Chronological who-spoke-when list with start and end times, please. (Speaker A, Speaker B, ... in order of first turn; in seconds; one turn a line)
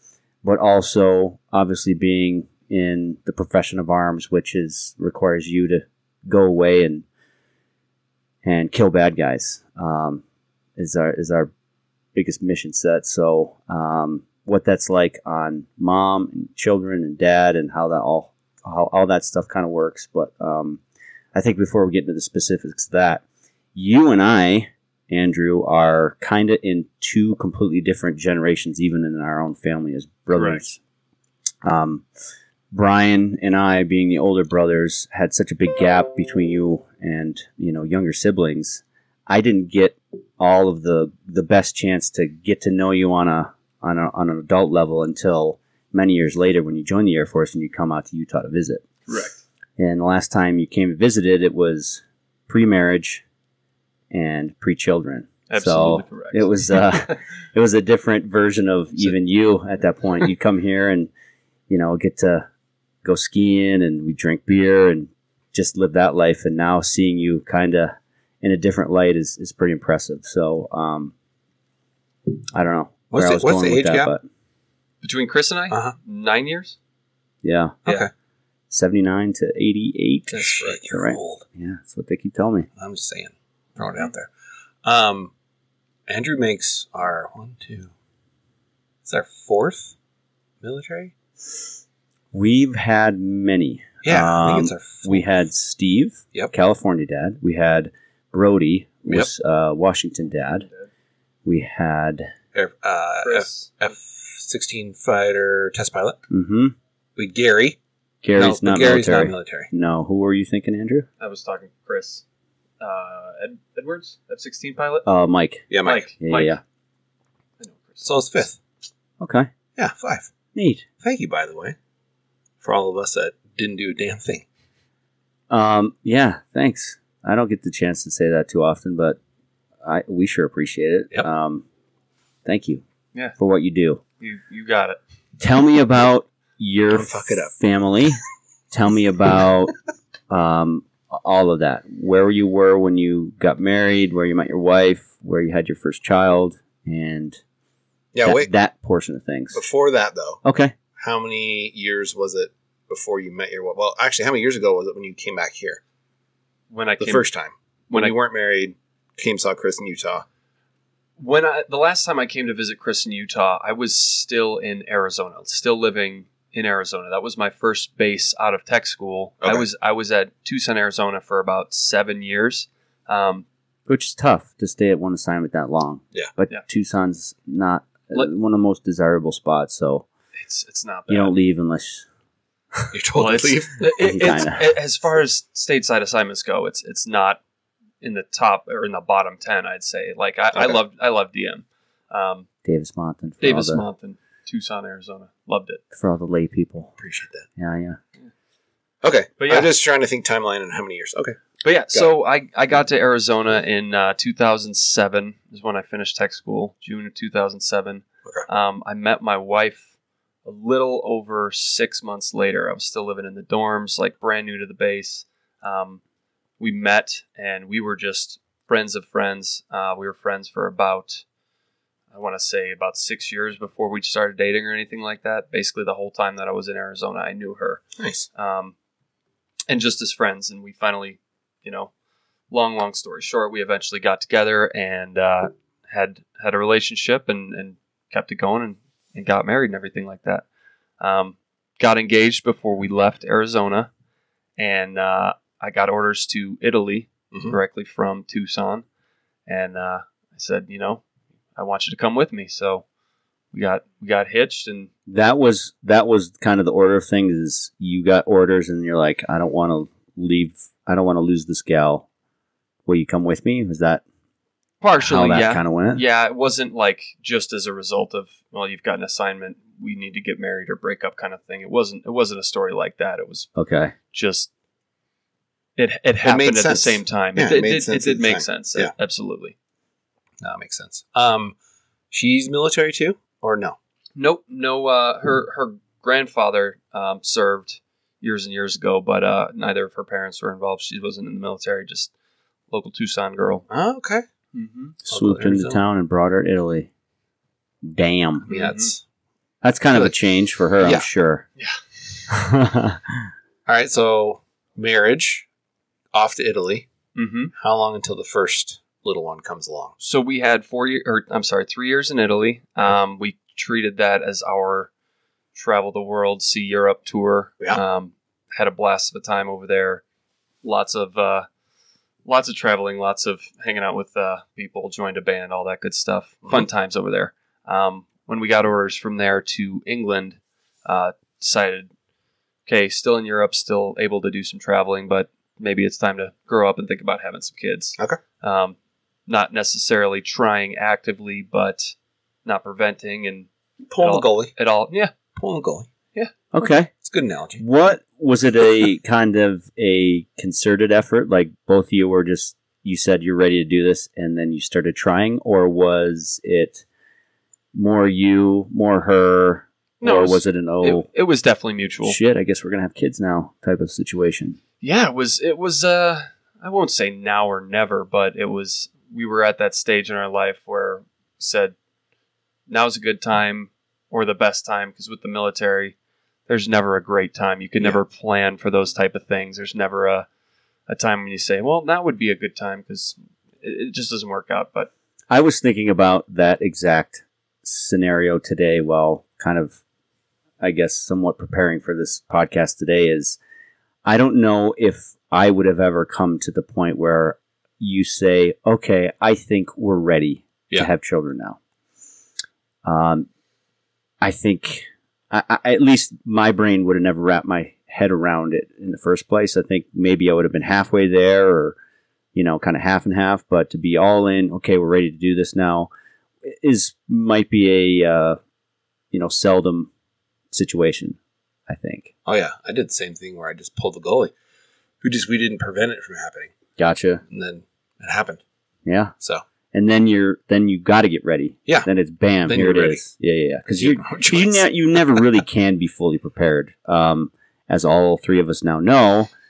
Speaker A: 0.4-7.1
Speaker A: 8.4-10.2
Speaker A: 10.8-11.5
Speaker A: 12.1-20.8
Speaker A: 21.3-23.2
Speaker A: 23.8-30.8
Speaker B: 30.3-30.6
Speaker A: 31.6-32.1
Speaker A: 32.7-48.8
Speaker B: 49.1-49.4
Speaker A: 49.8-53.2
Speaker A: 54.1-61.1
Speaker B: 55.5-57.1
Speaker A: 61.7-62.5
Speaker A: 63.0-71.1
Speaker A: 72.5-74.2
Speaker C: 73.1-74.1
Speaker B: 75.0-76.8
Speaker C: 75.7-76.0
Speaker A: 77.4-77.9
Speaker C: 77.8-78.1
Speaker A: 78.7-82.7
Speaker C: 80.3-81.4
Speaker C: 82.8-84.3
Speaker C: 84.8-85.3
Speaker C: 86.1-87.9
Speaker C: 89.0-89.9
Speaker C: 90.6-91.1
Speaker A: 92.3-100.7
Speaker C: 94.0-95.2
Speaker B: 100.6-100.9
Speaker A: 101.4-102.3
Speaker C: 102.5-106.2
Speaker B: 103.2-103.7
Speaker A: 106.3-106.8
Speaker C: 107.2-107.8
Speaker A: 108.2-111.1
Speaker C: 108.4-109.7
Speaker B: 111.2-112.2
Speaker B: 112.8-115.1
Speaker A: 115.0-115.7
Speaker C: 115.7-116.0
Speaker B: 115.8-116.6
Speaker A: 116.2-116.6
Speaker B: 117.6-118.1
Speaker C: 118.0-118.6
Speaker A: 119.2-119.5
Speaker C: 119.8-120.3
Speaker A: 120.5-120.8
Speaker C: 121.0-121.8
Speaker C: 122.6-124.4
Speaker A: 125.5-129.2
Speaker A: 129.8-131.6
Speaker A: 132.4-132.8
Speaker A: 133.4-134.0
Speaker B: 134.2-135.0
Speaker A: 135.4-138.2
Speaker C: 136.9-137.5
Speaker A: 138.7-139.7
Speaker A: 140.3-147.4
Speaker C: 148.1-148.5
Speaker A: 148.2-149.6
Speaker C: 149.5-150.4
Speaker A: 150.4-150.8
Speaker C: 151.0-155.8
Speaker B: 156.7-157.2
Speaker C: 157.0-160.2
Speaker B: 161.2-173.4
Speaker A: 173.9-180.1
Speaker B: 180.4-181.3
Speaker A: 181.1-182.1
Speaker C: 182.9-183.9
Speaker B: 183.1-187.4
Speaker A: 184.0-184.7
Speaker B: 188.0-192.5
Speaker C: 190.5-190.8
Speaker A: 192.6-193.8
Speaker B: 193.4-195.8
Speaker A: 195.9-196.9
Speaker C: 197.0-197.4
Speaker A: 197.6-198.0
Speaker C: 199.0-201.4
Speaker B: 199.4-199.7
Speaker B: 201.6-209.9
Speaker B: 210.4-216.0
Speaker B: 216.6-221.2
Speaker B: 222.1-227.8
Speaker C: 228.0-228.3
Speaker B: 228.3-228.8
Speaker B: 229.7-231.9
Speaker B: 232.5-240.4
Speaker B: 241.0-243.9
Speaker B: 244.6-248.8
Speaker B: 249.5-251.0
Speaker B: 251.6-252.8
Speaker B: 253.5-254.9
Speaker A: 255.1-262.1
Speaker A: 262.9-264.0
Speaker B: 264.8-273.5
Speaker A: 265.0-266.0
Speaker A: 273.6-273.9
Speaker B: 274.1-274.5
Speaker B: 275.8-279.5
Speaker C: 276.2-278.9
Speaker C: 280.4-281.5
Speaker C: 282.1-283.8
Speaker B: 284.2-292.1
Speaker B: 292.7-293.6
Speaker C: 293.7-294.2
Speaker B: 294.5-295.0
Speaker A: 295.1-296.9
Speaker C: 295.1-295.8
Speaker A: 297.8-298.5
Speaker C: 298.5-299.0
Speaker B: 298.5-298.9
Speaker A: 299.6-301.5
Speaker A: 302.3-303.3
Speaker C: 303.6-305.5
Speaker C: 306.1-306.9
Speaker B: 307.1-307.5
Speaker C: 307.6-310.0
Speaker B: 310.0-314.9
Speaker B: 315.5-320.0
Speaker B: 320.6-321.5
Speaker B: 322.2-331.9
Speaker B: 332.6-345.1
Speaker C: 343.9-344.5
Speaker C: 345.4-345.9
Speaker A: 346.5-346.9
Speaker C: 347.0-347.6
Speaker A: 347.6-356.8
Speaker A: 357.7-361.1
Speaker B: 360.0-362.2
Speaker A: 362.0-364.6
Speaker B: 364.8-371.8
Speaker B: 372.7-375.9
Speaker B: 376.5-380.2
Speaker B: 380.9-384.9
Speaker A: 385.3-389.8
Speaker A: 390.6-393.4
Speaker A: 394.0-401.6
Speaker A: 402.9-403.3
Speaker A: 404.2-411.8
Speaker A: 412.3-415.9
Speaker A: 416.4-418.4
Speaker A: 419.1-419.9
Speaker A: 420.5-422.1
Speaker C: 422.2-424.3
Speaker C: 425.0-426.5
Speaker A: 426.8-427.2
Speaker C: 427.3-428.4
Speaker A: 428.9-429.1
Speaker A: 429.7-439.3
Speaker C: 432.5-433.0
Speaker C: 433.7-435.2